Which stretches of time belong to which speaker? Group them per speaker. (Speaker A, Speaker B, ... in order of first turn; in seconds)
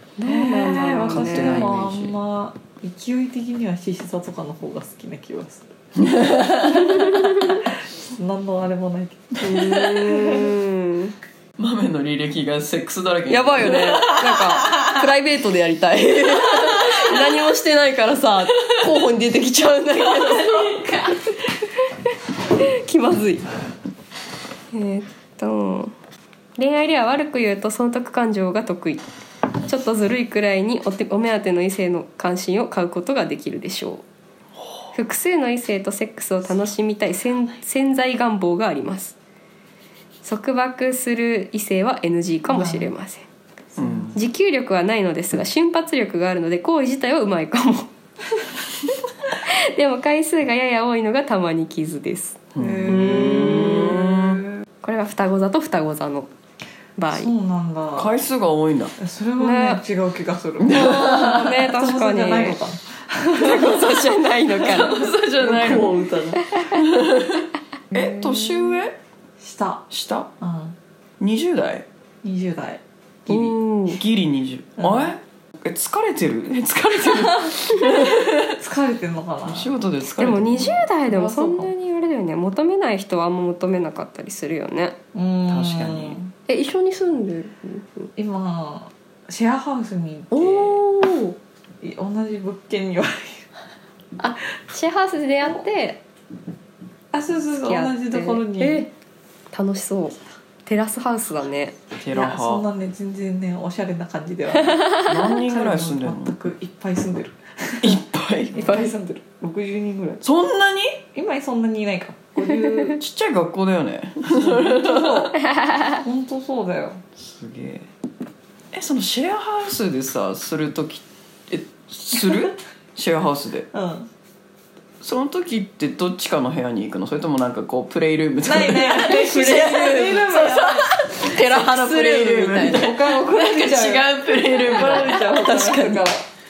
Speaker A: 0.2-1.7, 6.8-7.6, 9.4-11.1, 13.3-21.3, 22.6-23.5, 24.7-25.9, 26.6-29.0, 29.6-34.0, 34.9-39.2, 40.2-43.3, 44.1-47.9, 49.4-54.2, 54.8-56.3, 57.0-57.3, 59.4-59.8, 60.7-62.6, 63.4-65.1, 66.4-66.9, 68.0-68.5, 73.3-74.0, 80.2-85.0, 86.5-88.1, 90.3-91.3, 94.2-96.0, 97.6-98.9, 99.5-101.8, 104.7-105.1, 108.6-108.9, 115.4-116.0, 131.3-132.9, 134.8-136.1
Speaker B: 0.3-5.7, 7.0-10.5, 42.5-42.9, 43.8-44.1, 52.6-54.4, 57.1-58.1, 59.0-64.0, 65.4-66.5, 69.4-69.9, 70.4-70.8, 72.2-72.8, 74.8-75.1, 78.5-79.7, 81.1-81.7, 85.1-86.3, 88.2-90.8, 91.8-93.5, 97.1-98.9, 102.1-108.0, 108.5-110.2, 111.2-113.0, 114.2-115.4, 116.0-117.0, 123.7-124.1, 128.4-131.0, 132.5-136.2
Speaker C: 0.5-2.2, 6.0-7.2, 11.6-15.1, 16.3-17.3, 20.2-20.6, 43.8-44.2, 52.5-54.4, 58.0-59.0, 60.6-61.5, 64.5-66.0, 66.7-69.0, 69.9-70.3, 71.2-71.9, 73.3-78.6, 79.5-80.9, 85.5-86.2, 102.0-102.7, 105.0-106.4, 107.8-108.6, 110.2-111.0, 112.9-115.3, 117.2-117.9, 118.7-123.7, 125.0-135.3